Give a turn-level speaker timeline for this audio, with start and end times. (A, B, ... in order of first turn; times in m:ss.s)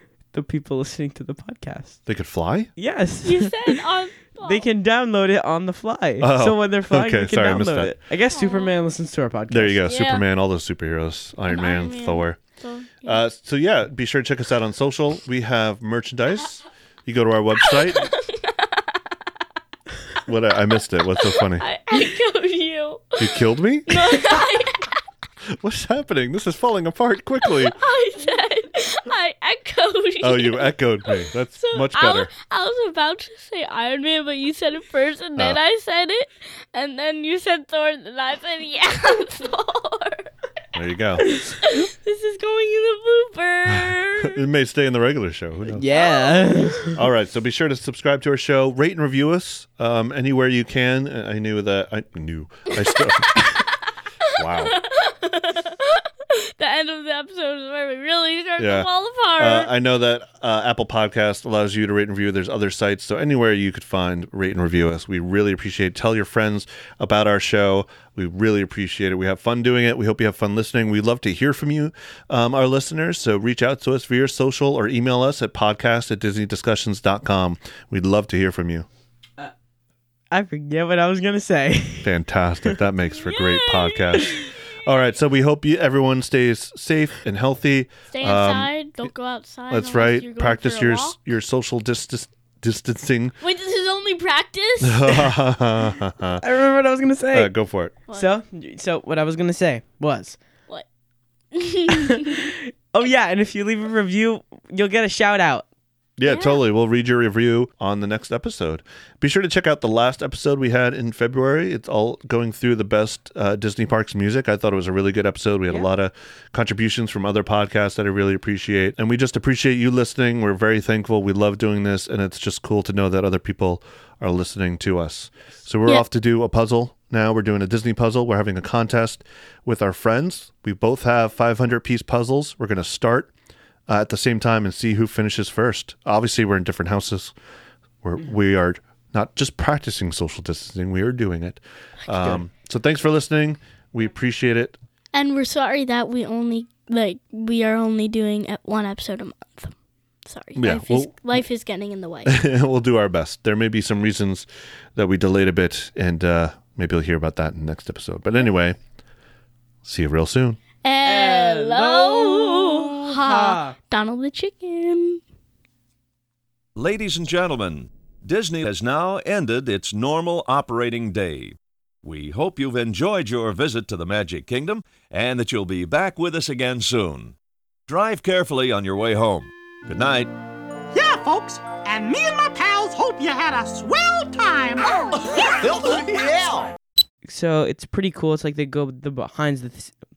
0:00.3-0:02.0 A
0:02.0-0:02.7 B
0:02.8-0:03.8 A
0:03.2-0:04.6 C
0:04.4-0:09.8 A
0:06.2-0:08.0 B
0:08.3-0:08.8 C
0:09.5-0:12.4 B
0:09.8-0:10.2 C
0:11.5-0:13.2 C
0:13.0-0:18.1 B
0:17.6-0:18.8 C
0:20.2-0:21.6 B
0:21.2-0:25.0 C
0:23.2-0:24.2 B
0:25.5-0:27.8 B
0:27.4-0:40.3 C
0:30.2-0:32.3 B
0:40.7-0:41.3 B
0:41.2-0:41.8 A
0:41.6-0:44.4 C
0:44.2-0:45.8 B
0:45.7-0:47.0 A
0:45.9-0:46.9 C
0:46.9-0:53.6 B
0:52.9-0:53.6 C
0:54.2-0:59.7 C
0:54.3-0:54.8 B
0:58.6-1:18.9 B
1:20.3-1:22.8 A
1:22.0-1:29.1 B
1:23.2-1:24.7 C
1:28.1-1:31.2 C
1:29.7-1:33.4 B
1:33.4-1:35.1 C
1:34.8-1:36.4 B
1:36.4-1:37.5 A
1:37.3-1:37.9 B
1:38.1-1:40.4 A
1:41.5-1:42.4 C
1:41.9-1:45.6 A
1:46.2-2:13.3 B
1:46.2-1:46.6 C
2:13.9-2:17.3 B
2:18.0-2:24.8 B
2:25.1-2:29.7 C
2:30.3-2:32.4 C
2:30.6-2:31.4 B
2:32.2-2:38.8 B
2:39.8-2:40.6 B
2:40.8-2:45.2 C
2:41.0-2:43.7 A
2:46.7-2:57.4 D
2:57.9-3:00.3 D
3:00.9-3:06.7 E
3:07.2-3:10.0 A